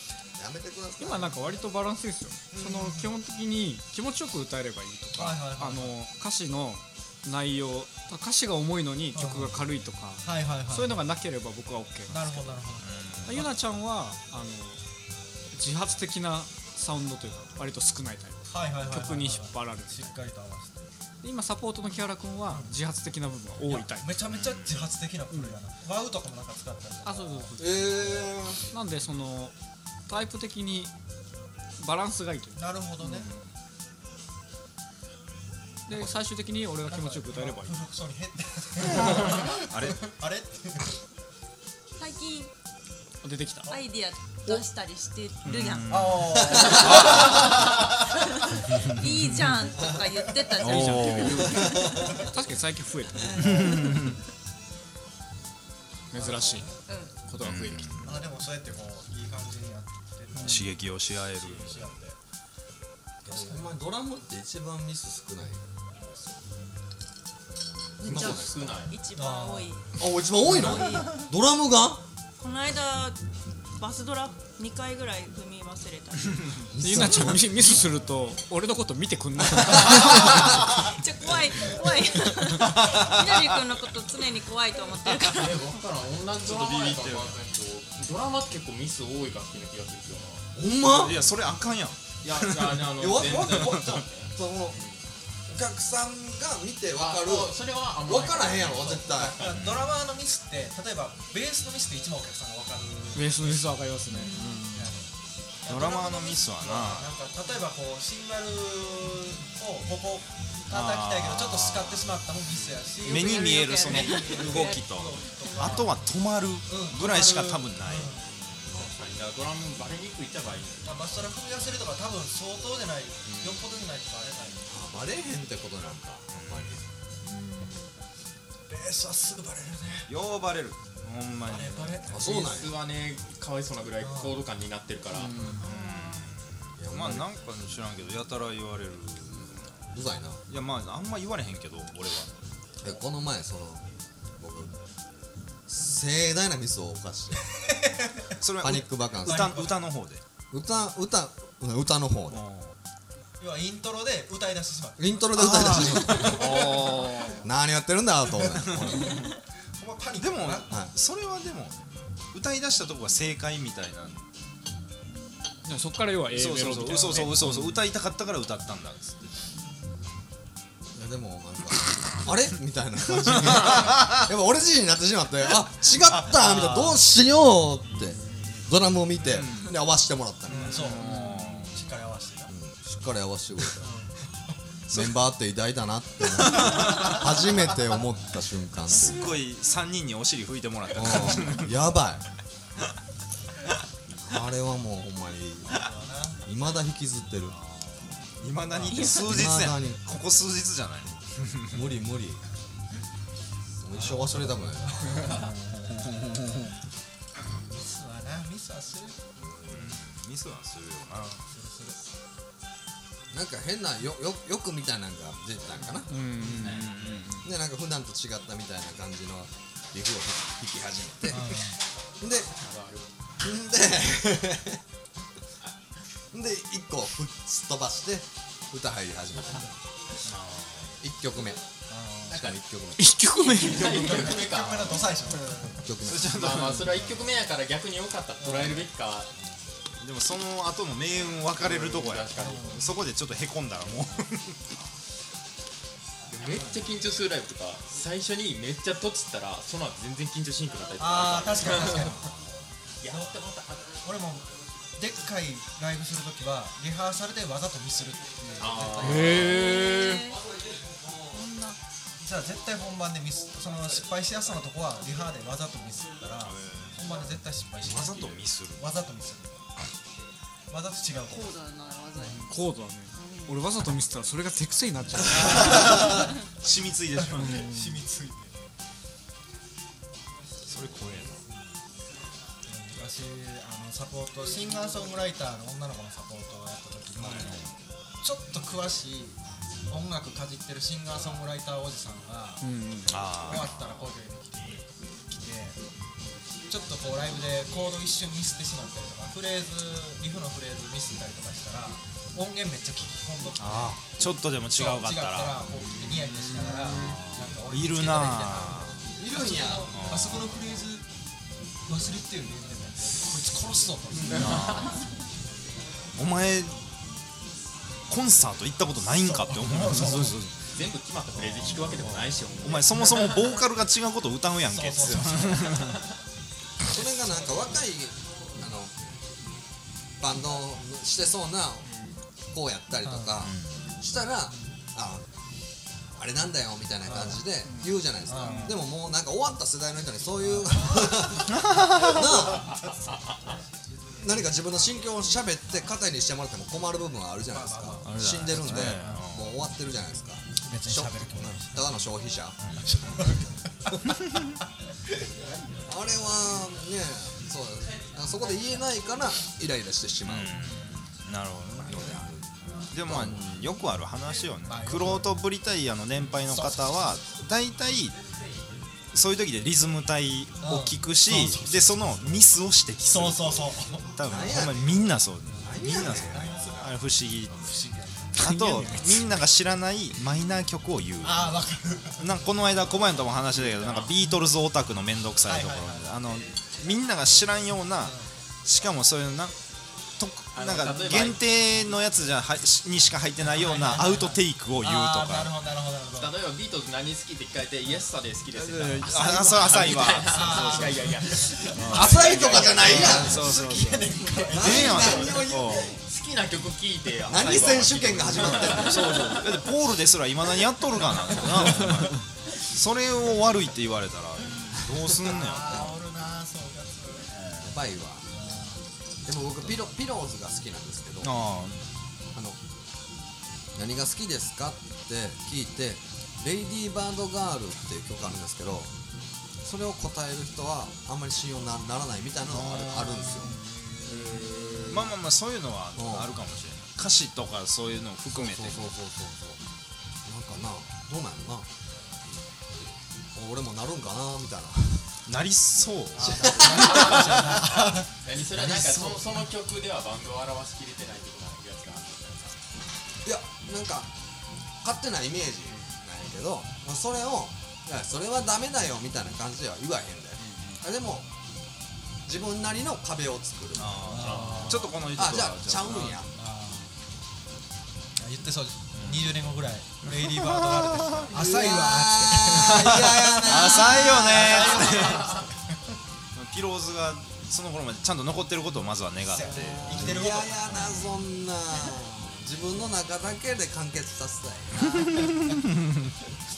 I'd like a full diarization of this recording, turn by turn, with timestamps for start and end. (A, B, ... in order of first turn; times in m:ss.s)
0:00.4-0:01.4 A
0:01.0-0:12.6 B
0:02.5-0:03.1 C
0:05.2-0:06.0 C
0:09.2-0:09.6 C
0:10.2-0:11.0 C
0:12.1-0:13.5 C
0:12.8-0:13.5 D
0:13.2-0:14.8 B
0:15.5-0:20.2 B
0:18.5-0:20.9 C
0:21.2-0:24.2 B
0:23.6-0:27.6 C
0:24.2-0:24.9 D
0:25.3-0:25.6 B
0:27.0-0:28.2 B
0:27.6-0:28.6 A
0:28.7-0:29.6 B
0:30.1-0:30.9 B
0:31.8-0:33.5 B
0:32.6-0:33.3 C
0:35.9-0:37.8 B
0:36.9-0:41.0 C
0:38.8-0:40.1 D
0:42.0-0:42.5 E
0:43.2-0:43.8 B
0:43.7-0:46.0 E
0:45.4-0:45.9 B
0:45.5-0:46.9 D
0:45.9-0:47.6 C
0:46.6-0:52.2 E
0:48.7-0:49.6 D
0:50.6-0:53.9 B
0:50.6-0:51.6 D
0:51.5-0:52.1 A
0:53.3-0:54.2 D
0:56.1-0:57.9 B
0:56.1-0:56.7 C
0:56.8-0:57.2 E
0:57.4-0:58.3 D
0:58.0-1:02.2 C
1:00.4-1:00.6 B
1:00.4-1:01.9 D
1:03.2-1:03.8 C
1:03.3-1:05.6 A
1:08.0-1:08.9 A
1:08.0-1:09.0 F
1:08.9-1:11.3 E
1:09.2-1:09.7 C
1:10.0-1:12.0 A
1:12.4-1:13.2 E
1:13.8-1:16.7 E
1:16.7-1:17.7 A
1:16.8-1:20.7 B
1:19.7-1:25.8 E
1:22.8-1:23.6 D
1:25.3-1:30.5 F
1:26.4-1:27.4 D
1:30.6-1:31.2 A
1:30.9-1:33.9 D
1:32.2-1:35.0 F
1:33.0-1:34.8 A
1:35.5-1:39.4 A
1:36.9-1:39.6 F
1:39.2-1:43.4 C
1:39.5-1:39.9 D
1:43.1-1:45.0 B
1:44.1-1:44.6 E
1:44.8-1:45.1 C
1:45.6-1:56.0 C
1:45.7-1:47.1 D
1:50.7-1:52.2 D
1:53.0-1:58.2 D
1:53.1-1:54.8 E
1:55.4-1:55.8 E
1:56.7-1:58.3 C
1:58.7-2:00.9 F
2:00.8-2:04.7 C
2:04.7-2:06.8 A
2:06.3-2:06.8 D
2:07.2-2:07.9 E
2:08.7-2:10.1 C
2:10.1-2:12.1 D
2:11.4-2:12.2 C
2:12.1-2:12.8 A
2:12.2-2:15.3 F
2:14.0-2:14.4 C
2:15.2-2:15.7 B
2:15.5-2:19.9 D
2:16.8-2:17.3 A
2:19.9-2:20.4 A
2:20.5-2:22.3 D
2:22.8-2:23.9 A
2:24.4-2:24.8 A
2:25.7-2:27.4 A
2:27.6-2:28.3 C
2:28.4-2:30.2 D
2:28.6-2:29.6 A
2:29.3-2:29.8 C
2:30.5-2:32.4 A
2:32.3-2:32.8 D
2:33.4-2:36.6 C
2:35.0-2:39.2 A
2:35.5-2:37.4 B
2:38.6-2:39.3 D
2:39.8-2:40.7 C
2:40.2-2:44.3 D
2:45.6-2:47.8 B
2:46.3-2:49.4 D
2:50.9-3:01.0 A
2:53.2-2:54.2 D
2:56.1-2:57.0 C
2:57.8-2:58.7 F
2:59.2-2:59.8 D
3:00.5-3:02.5 C
3:00.6-3:01.9 D
3:02.5-3:03.8 A
3:03.8-3:04.2 C
3:04.9-3:05.2 D
3:04.9-3:09.4 A
3:06.5-3:07.2 D
3:08.9-3:11.8 D
3:10.9-3:12.2 A
3:14.2-3:15.8 A
3:15.7-3:16.4 C
3:16.4-3:17.6 A
3:17.5-3:21.9 D
3:18.7-3:19.0 C
3:18.9-3:19.2 E
3:19.0-3:20.0 A
3:21.7-3:22.4 A
3:23.8-3:25.4 A
3:23.9-3:26.1 C
3:27.7-3:29.2 C
3:29.4-3:30.0 A
3:29.7-3:31.4 D
3:31.5-3:32.0 C
3:33.3-3:36.1 A
3:36.1-3:37.0 B
3:36.4-3:36.7 C
3:36.6-3:37.4 D
3:36.6-3:37.2 F
3:37.4-3:41.5 A
3:41.3-3:41.8 C
3:42.2-3:42.5 A
3:42.6-3:43.1 F
3:43.4-3:44.8 A
3:46.3-3:49.7 A
3:50.2-3:51.0 D
3:51.0-3:51.6 A
3:51.9-3:52.5 C
3:52.3-3:53.2 A
3:53.0-3:54.3 B
3:53.4-3:55.2 F
3:53.8-3:55.8 C
3:55.8-3:56.8 A
3:56.0-3:57.0 D
3:56.2-3:59.3 F
3:58.4-3:58.9 C
4:00.0-4:04.6 D
4:01.6-4:02.8 F
4:02.4-4:02.8 C
4:06.3-4:12.2 F
4:11.0-4:12.4 C
4:13.0-4:14.0 F
4:14.0-4:19.5 C
4:18.6-4:19.6 F
4:19.0-4:20.3 B
4:19.3-4:20.4 E
4:21.3-4:21.8 E
4:22.2-4:29.7 C
4:26.4-4:27.0 D
4:27.8-4:28.9 D
4:30.7-4:31.6 C
4:31.3-4:32.5 E
4:32.2-4:36.2 B
4:33.1-4:33.6 E
4:35.4-4:36.3 C
4:35.5-4:37.7 D
4:37.2-4:38.5 C
4:37.4-4:38.0 B
4:40.7-4:41.4 D
4:42.7-4:47.6 C
4:47.2-4:47.7 D
4:48.2-4:49.4 C
4:49.9-4:52.6 C
4:52.6-4:53.2 B
4:53.1-4:54.1 D
4:53.3-4:55.8 C
4:56.7-5:04.0 C
5:03.6-5:05.7 D
5:04.8-5:11.1 C
5:06.6-5:07.2 F
5:07.0-5:09.1 D
5:09.1-5:09.9 A
5:09.9-5:10.6 D
5:11.9-5:15.0 C
5:14.2-5:15.0 D
5:14.5-5:15.0 F
5:16.2-5:16.8 D
5:18.1-5:20.7 D
5:19.2-5:20.4 C
5:20.7-5:23.6 F
5:21.4-5:26.0 D
5:24.7-5:26.0 C
5:26.8-5:28.9 A
5:27.2-5:27.8 C
5:30.2-5:31.9 A
5:31.8-5:32.2 F
5:32.5-5:35.3 A
5:33.0-5:33.4 C
5:33.4-5:33.8 D
5:36.2-5:42.8 A
5:37.0-5:37.4 C
5:37.6-5:38.0 B
5:38.3-5:38.8 C
5:38.4-5:38.8 F
5:40.4-5:41.2 C
5:41.5-5:42.4 D
5:44.2-5:52.6 A
5:47.5-5:48.5 C
5:48.0-5:49.6 D
5:50.6-5:51.9 C
5:52.6-5:52.9 D
5:52.8-5:54.2 C
5:54.2-5:54.6 D
5:55.8-6:00.6 A
6:00.3-6:02.2 D
6:01.8-6:02.5 A
6:02.9-6:08.2 D
6:03.0-6:03.6 A
6:04.6-6:05.3 C
6:06.5-6:06.9 C
6:09.1-6:17.8 D
6:10.6-6:11.8 C
6:13.0-6:14.1 C
6:14.2-6:15.1 A
6:15.6-6:16.5 A
6:15.7-6:17.0 C
6:17.6-6:18.4 C
6:18.4-6:21.5 D
6:18.4-6:19.4 B
6:21.2-6:22.3 C
6:22.2-6:29.5 D
6:23.5-6:24.1 F
6:25.5-6:26.2 C
6:30.2-6:35.6 D
6:30.5-6:31.4 F
6:33.4-6:36.3 C
6:36.2-6:43.3 F
6:38.5-6:41.2 D
6:40.3-6:45.4 C
6:41.8-6:46.0 D
6:41.9-6:43.4 A
6:44.5-6:46.0 A
6:45.0-6:49.2 F
6:47.3-6:49.2 A
6:48.2-6:56.0 D
6:51.1-6:51.4 C
6:55.2-6:57.3 C
6:57.6-6:58.3 A
6:58.3-6:58.8 C
6:59.3-7:01.4 A
7:01.2-7:01.8 D
7:02.3-7:02.6 A
7:03.8-7:08.9 A
7:09.6-7:13.6 A
7:12.5-7:13.6 D
7:14.1-7:14.8 A
7:14.5-7:15.1 B
7:14.9-7:18.9 D
7:16.0-7:16.3 A
7:18.3-7:19.6 A
7:20.2-7:21.7 A
7:22.8-7:25.1 A
7:25.3-7:27.6 D
7:26.2-7:29.3 C
7:26.2-7:27.2 A
7:26.6-7:32.6 F
7:33.2-7:34.1 A
7:34.8-7:41.3 A
7:35.7-7:36.0 F
7:40.4-7:40.8 F
7:42.2-7:44.4 A
7:43.8-7:46.3 D
7:44.1-7:44.8 C
7:44.2-7:45.0 F
7:45.1-7:46.3 A
7:46.4-7:46.9 C
7:48.2-7:55.5 C
7:48.9-7:49.4 D
7:50.0-7:51.6 D
7:51.3-7:54.3 A
7:52.5-7:55.3 D
7:55.0-7:55.2 F
7:56.4-8:00.2 D
7:59.3-8:00.7 C
7:59.5-8:05.3 A
8:00.8-8:01.0 D
8:04.9-8:06.2 D